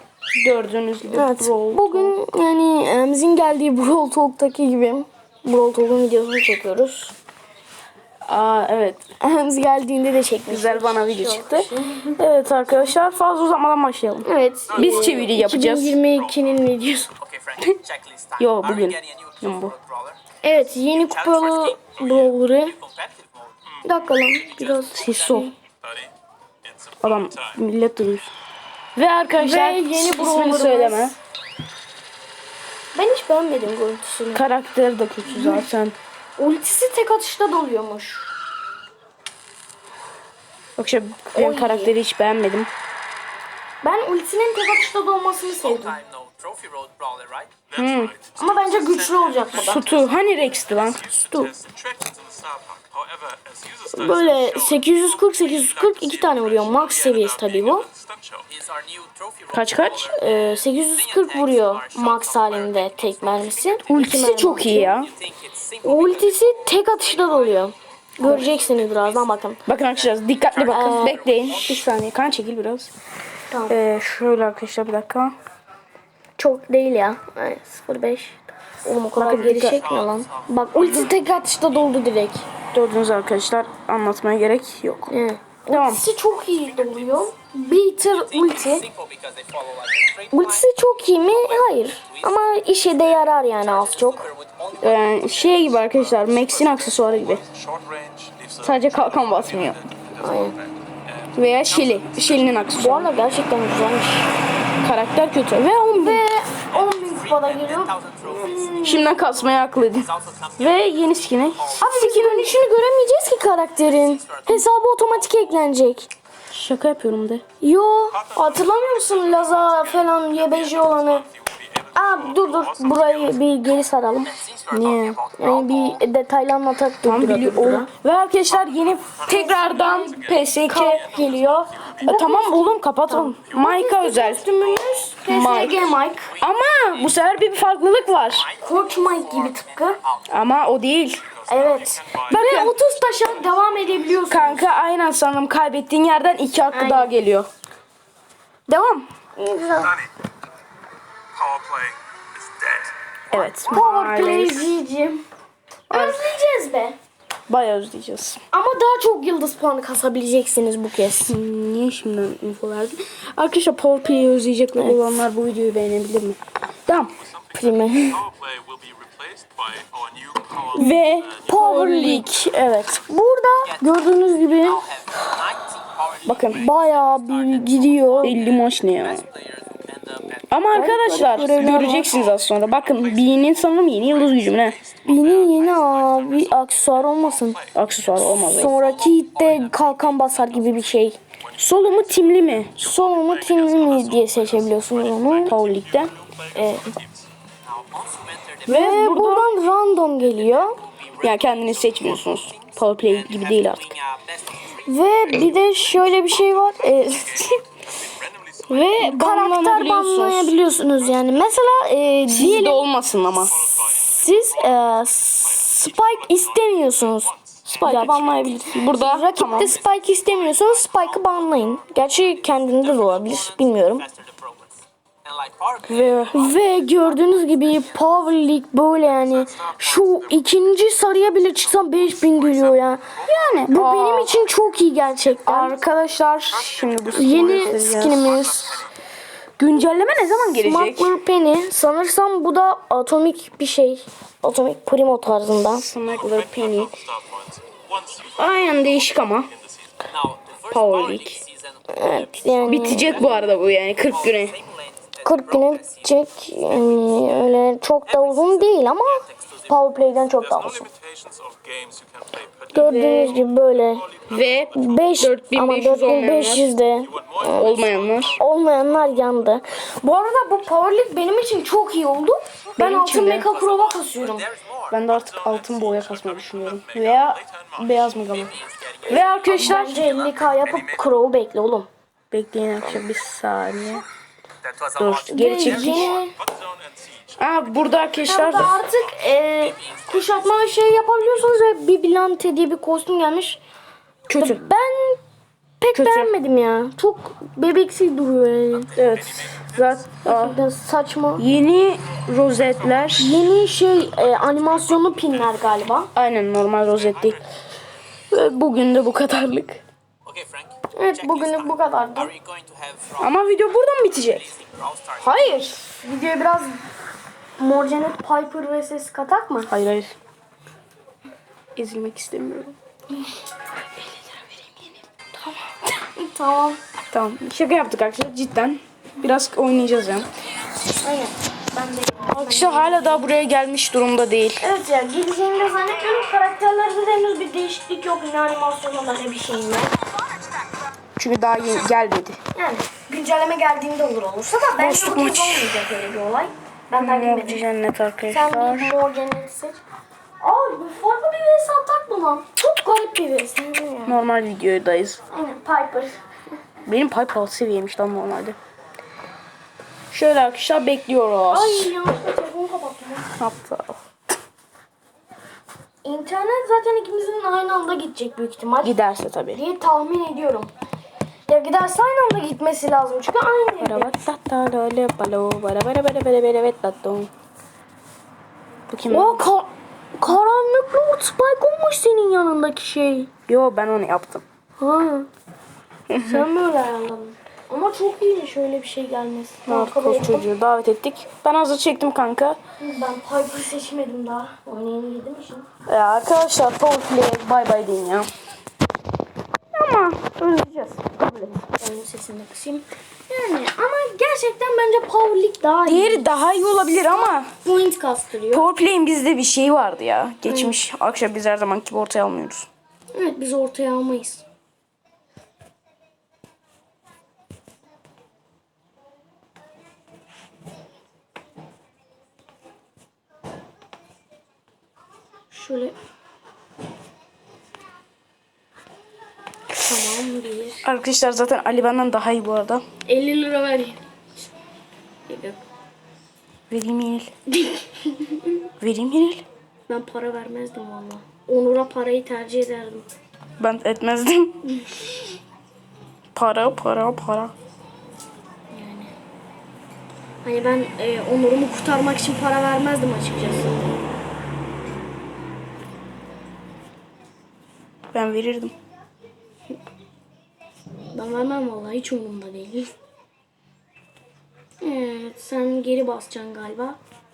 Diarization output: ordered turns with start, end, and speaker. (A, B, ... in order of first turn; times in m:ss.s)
0:00.4-0:02.2 A
0:01.1-0:07.1 B
0:08.2-0:09.0 A
0:09.2-0:12.2 B
0:10.5-0:16.0 A
0:14.2-0:17.1 B
0:14.6-0:16.4 C
0:17.1-0:20.2 C
0:18.4-0:19.7 A
0:20.4-0:22.8 B
0:20.8-0:23.8 C
0:23.8-0:25.5 B
0:24.4-0:25.5 C
0:24.9-0:25.5 A
0:25.8-0:27.6 D
0:27.0-0:28.3 A
0:28.9-0:31.2 A
0:29.4-0:31.1 B
0:32.9-0:34.4 B
0:34.3-0:36.0 A
0:35.2-0:35.6 B
0:36.4-0:38.3 B
0:40.8-0:42.7 A
0:41.3-0:41.9 B
0:43.8-0:46.0 B
0:45.5-0:47.5 C
0:47.7-0:58.5 D
0:47.7-0:48.1 A
0:48.4-0:49.9 B
0:49.5-0:51.0 A
0:54.0-0:57.8 B
0:58.5-1:11.9 C
0:59.5-1:00.1 A
1:00.1-1:04.9 B
1:03.9-1:05.1 A
1:05.8-1:09.6 B
1:08.2-1:08.5 A
1:09.6-1:12.9 A
1:10.7-1:11.2 B
1:13.5-1:13.8 B
1:13.7-1:15.3 A
1:16.4-1:22.4 B
1:19.2-1:19.9 A
1:19.2-1:21.6 C
1:20.7-1:21.1 A
1:22.7-1:25.1 A
1:25.1-1:28.8 B
1:25.7-1:26.0 A
1:26.1-1:27.4 C
1:28.1-1:36.4 C
1:30.3-1:34.2 B
1:34.8-1:37.4 A
1:36.2-1:43.1 D
1:38.6-1:39.8 A
1:40.2-1:40.6 B
1:41.3-1:43.1 A
1:42.8-1:44.3 B
1:44.8-1:46.2 A
1:46.0-1:49.2 B
1:46.7-1:50.8 C
1:48.8-1:52.5 A
1:51.5-1:52.5 C
1:51.8-1:56.1 B
1:53.9-1:55.6 C
1:56.5-1:57.4 A
1:57.6-2:01.2 B
1:58.1-2:03.4 D
2:01.9-2:04.4 B
2:04.2-2:06.0 C
2:04.7-2:05.2 A
2:05.4-2:07.9 B
2:07.0-2:11.0 A
2:08.5-2:12.2 D
2:09.3-2:16.3 B
2:12.0-2:14.4 A
2:15.3-2:18.4 A
2:16.3-2:17.2 C
2:18.1-2:20.3 C
2:18.6-2:20.0 B
2:20.3-2:21.2 A
2:21.3-2:22.7 D
2:21.5-2:24.7 B
2:22.2-2:22.7 A
2:24.3-2:27.5 A
2:26.7-2:27.1 B
2:28.7-2:29.1 A
2:29.4-2:30.0 B
2:29.8-2:30.1 D
2:31.3-2:32.9 D
2:33.3-2:34.7 A
2:33.6-2:35.2 B
2:35.9-2:37.0 B
2:35.9-2:36.2 A
2:37.5-2:38.4 A
2:38.5-2:41.3 B
2:41.3-2:47.1 A
2:47.2-2:51.8 D
2:47.5-2:48.2 B
2:50.7-2:52.4 A
2:50.7-2:54.8 B
2:53.6-3:05.4 C
2:56.2-2:56.6 A
2:56.4-2:58.4 B
2:58.2-2:59.2 A
3:00.5-3:04.8 A
3:00.7-3:02.1 B
3:05.0-3:07.6 B
3:05.0-3:08.4 D
3:07.7-3:08.8 A
3:08.2-3:11.2 B
3:08.5-3:11.0 C
3:11.5-3:17.3 D
3:11.6-3:12.7 A
3:12.8-3:15.6 B
3:13.5-3:15.3 C
3:15.5-3:16.1 A
3:16.5-3:16.9 B
3:17.6-3:18.9 C
3:18.6-3:19.5 A
3:18.6-3:20.8 B
3:20.2-3:25.5 C
3:21.2-3:23.9 A
3:24.8-3:27.6 B
3:26.7-3:29.0 D
3:28.7-3:32.8 B
3:28.7-3:30.5 A
3:32.3-3:33.5 A
3:33.3-3:38.4 D
3:33.8-3:44.0 B
3:37.8-3:39.8 A
3:39.4-3:47.9 C
3:39.6-3:39.9 D
3:45.8-3:46.5 A
3:46.3-3:55.8 B
3:49.3-3:50.6 D
3:51.4-3:54.5 D
3:53.2-3:54.3 A
3:55.4-3:58.3 A
3:56.5-3:58.9 D
3:57.1-3:58.8 B
3:59.6-4:01.2 A
4:00.5-4:05.9 B
4:05.7-4:07.0 A
4:06.0-4:09.9 D
4:08.3-4:09.5 A
4:10.0-4:13.5 C
4:10.7-4:11.4 A
4:11.9-4:13.4 B
4:12.6-4:14.5 A
4:14.0-4:16.2 C
4:15.2-4:20.9 B
4:18.0-4:19.9 C
4:20.4-4:25.2 D
4:22.7-4:24.1 B
4:22.8-4:23.4 A
4:24.3-4:26.7 A
4:24.7-4:27.7 B
4:26.5-4:29.0 D
4:27.4-4:28.4 A
4:28.4-4:34.5 B
4:32.8-4:33.5 A
4:33.4-4:34.1 D
4:33.8-4:35.0 C
4:34.9-4:38.5 A
4:35.1-4:38.4 D
4:38.3-4:40.3 C
4:39.0-4:40.0 A
4:39.5-4:41.9 B
4:40.0-4:41.0 D
4:42.3-4:44.0 A
4:44.6-4:46.2 C
4:45.0-4:46.1 A
4:45.3-4:46.3 B
4:45.7-4:49.2 D
4:47.4-4:48.8 A
4:48.2-4:53.6 B
4:49.7-4:50.6 C
4:54.3-4:54.6 A
4:54.4-4:55.2 B
4:55.8-4:58.9 B
4:55.9-4:56.3 A
4:59.0-5:00.6 A
4:59.0-4:59.6 D
5:00.2-5:01.5 B
5:01.4-5:03.4 A
5:02.8-5:03.1 D
5:03.2-5:06.1 B
5:06.1-5:07.4 A
5:07.0-5:07.3 C
5:08.3-5:09.8 A
5:10.2-5:13.4 C
5:10.9-5:12.3 B
5:13.2-5:14.5 A
5:14.1-5:15.7 C
5:15.2-5:16.8 B
5:17.6-5:19.7 B
5:19.7-5:20.1 A
5:21.8-5:22.7 A
5:24.4-5:24.8 A
5:25.4-5:26.8 B
5:27.1-5:30.3 A
5:31.0-5:33.3 B
5:32.3-5:34.6 A
5:34.6-5:39.9 B
5:41.2-5:42.4 A
5:42.5-5:47.6 B
5:44.8-5:45.7 A
5:47.0-5:49.0 A
5:48.3-5:49.8 B
5:50.4-5:54.2 B
5:54.0-5:55.2 A
5:55.3-5:56.2 B
5:56.8-5:58.6 A
6:00.1-6:01.9 A
6:01.5-6:03.3 B
6:03.4-6:04.0 A
6:06.0-6:09.0 B
6:08.8-6:09.6 A
6:09.5-6:10.7 B
6:11.5-6:14.2 B
6:13.8-6:17.3 A
6:18.9-6:19.4 A
6:19.1-6:23.3 B
6:23.5-6:24.4 A
6:24.8-6:25.3 B
6:26.1-6:26.5 A
6:26.2-6:30.5 B
6:29.6-6:32.6 A
6:32.8-6:35.7 B
6:35.8-6:38.3 A
6:39.7-6:41.6 A
6:41.8-6:48.7 B
6:45.8-6:47.5 A
6:48.5-6:52.7 A
6:50.5-6:50.7 B
6:53.1-6:54.4 B
7:05.5-7:06.0 B
7:09.8-7:10.8 B
7:10.8-7:12.8 A
7:13.0-7:14.0 B
7:15.3-7:15.6 B
7:16.7-7:17.3 A
7:17.5-7:18.6 B
7:18.8-7:19.4 A
7:19.9-7:23.1 B
7:23.6-7:24.6 A
7:26.3-7:27.5 A
7:28.7-7:29.1 B
7:30.4-7:33.8 B
7:38.1-7:38.7 A
7:41.1-7:42.9 B
7:44.8-7:47.0 B